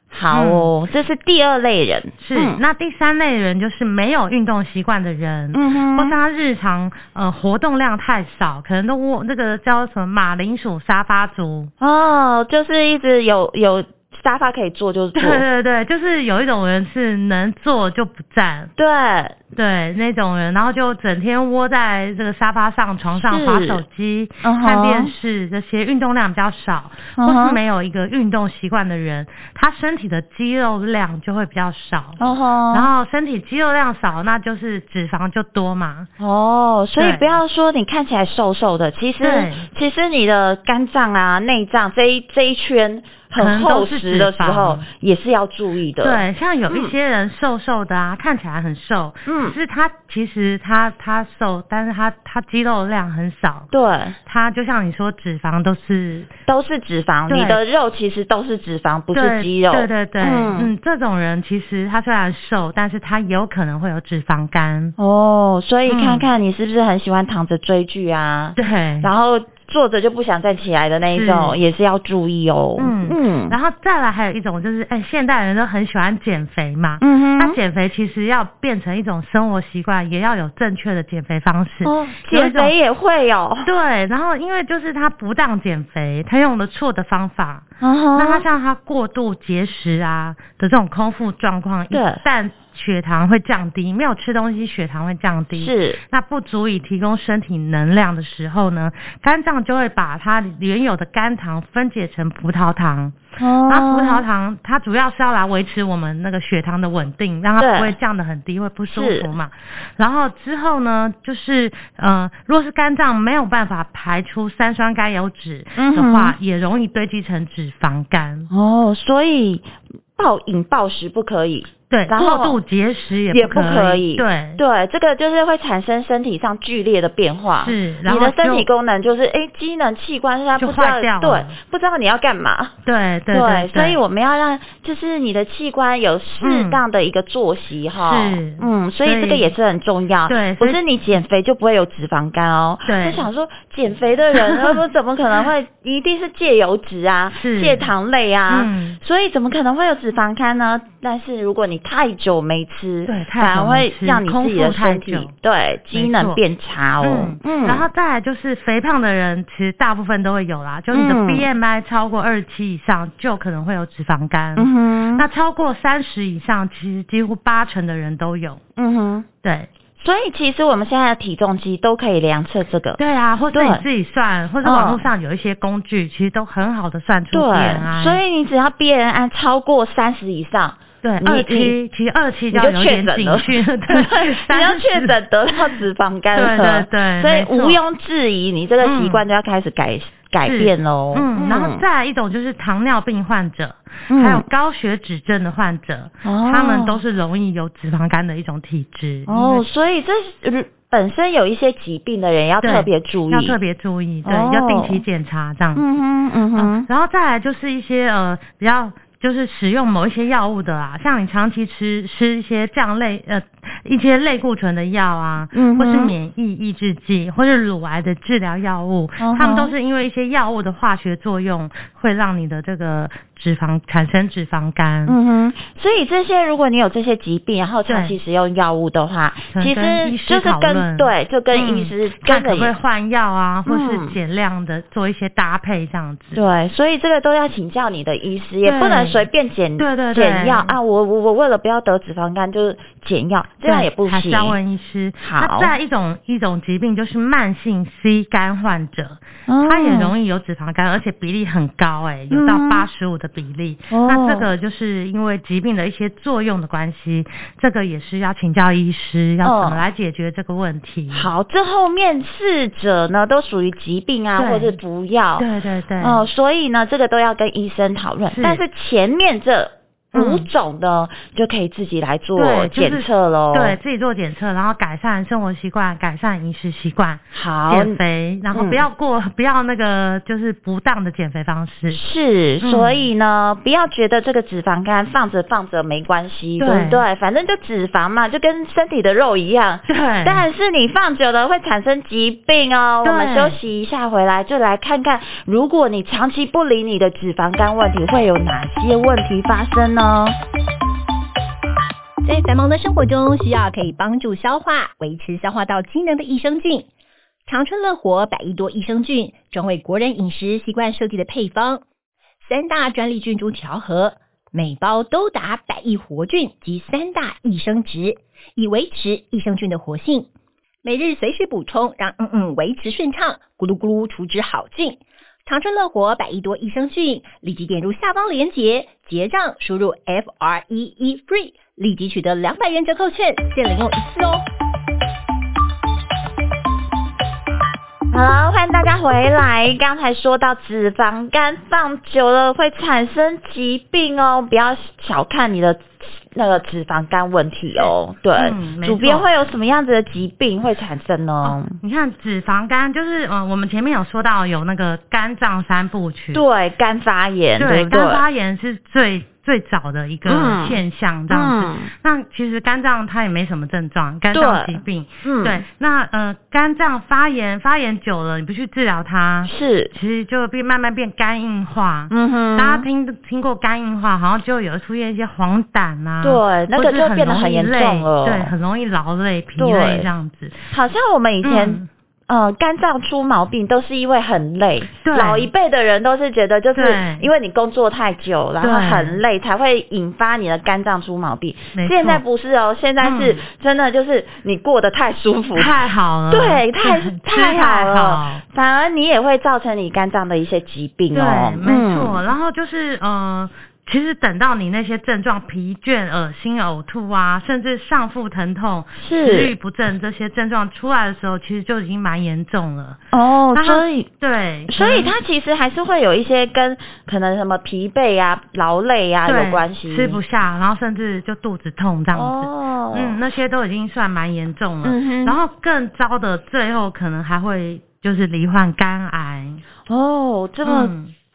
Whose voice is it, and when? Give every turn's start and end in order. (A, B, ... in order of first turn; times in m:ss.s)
0:00.1-0:02.6 A
0:00.3-0:00.7 B
0:02.2-0:11.7 B
0:05.5-0:06.2 A
0:11.8-0:15.4 A
0:15.2-0:18.7 B
0:18.8-0:19.4 A
0:19.6-0:32.2 B
0:23.2-0:23.8 A
0:24.4-0:25.1 A
0:27.2-0:27.6 A
0:32.2-0:32.9 A
0:32.7-0:36.1 B
0:36.2-0:46.9 A
0:37.0-0:37.4 B
0:39.2-0:39.7 B
0:43.4-0:44.9 B
0:46.0-0:53.7 B
0:49.3-0:49.6 A
0:53.7-0:54.2 A
0:54.3-0:56.3 B
0:56.5-1:00.7 A
0:57.3-0:57.6 B
0:59.1-1:05.0 B
1:05.0-1:13.6 A
1:05.9-1:06.3 B
1:08.6-1:09.1 B
1:11.1-1:11.6 B
1:12.8-1:22.7 B
1:17.0-1:17.6 A
1:21.8-1:23.7 A
1:23.6-1:43.2 B
1:27.8-1:28.4 A
1:31.9-1:32.2 A
1:35.6-1:36.0 A
1:43.4-1:44.2 A
1:43.7-1:58.5 B
1:47.6-1:47.9 A
1:48.9-1:49.3 A
1:55.8-1:56.4 A
1:58.5-2:02.6 A
2:01.9-2:04.6 B
2:03.3-2:12.7 A
2:07.6-2:08.7 B
2:10.6-2:11.6 B
2:12.8-2:14.0 B
2:13.3-2:37.8 A
2:16.4-2:16.8 B
2:18.0-2:19.5 B
2:20.3-2:20.8 B
2:22.9-2:23.3 B
2:24.4-2:24.8 B
2:27.4-2:27.9 B
2:28.5-2:29.0 B
2:33.1-2:35.3 B
2:35.9-2:36.4 B
2:37.0-2:48.6 B
2:40.9-2:41.5 A
2:44.6-2:45.2 A
2:48.8-2:49.3 A
2:50.0-2:53.0 A
2:53.0-2:58.2 B
2:53.5-2:53.8 A
2:54.6-2:55.1 A
2:57.3-3:01.8 A
3:01.0-3:05.6 B
3:02.5-3:11.8 A
3:06.3-3:07.8 B
3:08.8-3:09.2 B
3:10.4-3:19.6 B
3:14.1-3:14.4 A
3:16.2-3:17.0 A
3:19.3-3:23.6 A
3:22.6-3:25.8 B
3:24.3-3:25.0 A
3:25.8-3:26.9 A
3:26.6-3:45.2 B
3:35.5-3:36.1 A
3:39.2-3:39.7 A
3:45.1-3:52.7 A
3:47.9-3:48.2 B
3:49.5-3:56.4 B
3:53.7-3:54.2 A
3:56.3-4:04.6 A
3:58.6-3:59.2 B
3:59.8-4:00.8 B
4:03.6-4:21.3 B
4:05.2-4:05.7 A
4:09.5-4:10.1 A
4:12.3-4:12.9 A
4:13.9-4:14.5 A
4:19.4-4:19.8 A
4:21.1-4:25.5 A
4:24.4-4:24.8 B
4:25.4-4:26.2 B
4:26.0-4:33.8 A
4:28.3-4:28.6 B
4:30.1-4:30.5 B
4:32.4-4:42.0 B
4:37.3-4:38.0 A
4:38.5-4:38.8 A
4:41.9-5:00.4 A
4:42.6-4:43.1 B
4:46.6-4:47.0 B
4:49.9-4:50.4 B
4:53.0-4:53.6 B
5:02.2-5:06.9 C
5:07.5-5:11.8 C
5:12.4-5:20.3 C
5:20.8-5:34.4 C
5:38.1-5:51.8 A
5:47.8-5:49.3 B
5:51.4-5:56.4 B
5:56.3-5:58.2 A
5:57.6-6:20.7 B
6:00.3-6:00.8 A
6:01.3-6:01.9 A
6:04.3-6:05.6 A
6:09.5-6:09.9 A
6:12.1-6:12.9 A
6:16.2-6:18.5 A
6:19.6-6:20.1 A
6:20.7-6:35.8 A
6:21.4-6:21.9 B
6:25.0-6:25.5 B
6:26.8-6:27.3 B
6:28.6-6:29.2 B
6:31.8-6:32.2 B
6:33.0-6:33.4 B
6:35.6-6:38.4 B
6:36.3-6:42.2 A
6:41.1-6:53.0 B
6:49.0-6:49.5 A
6:53.1-6:54.1 A
6:53.6-6:55.2 B
6:54.7-7:00.2 A
6:59.3-7:09.6 B
7:02.1-7:03.2 A
7:04.8-7:05.4 A
7:09.9-7:10.9 A
7:10.6-7:11.1 B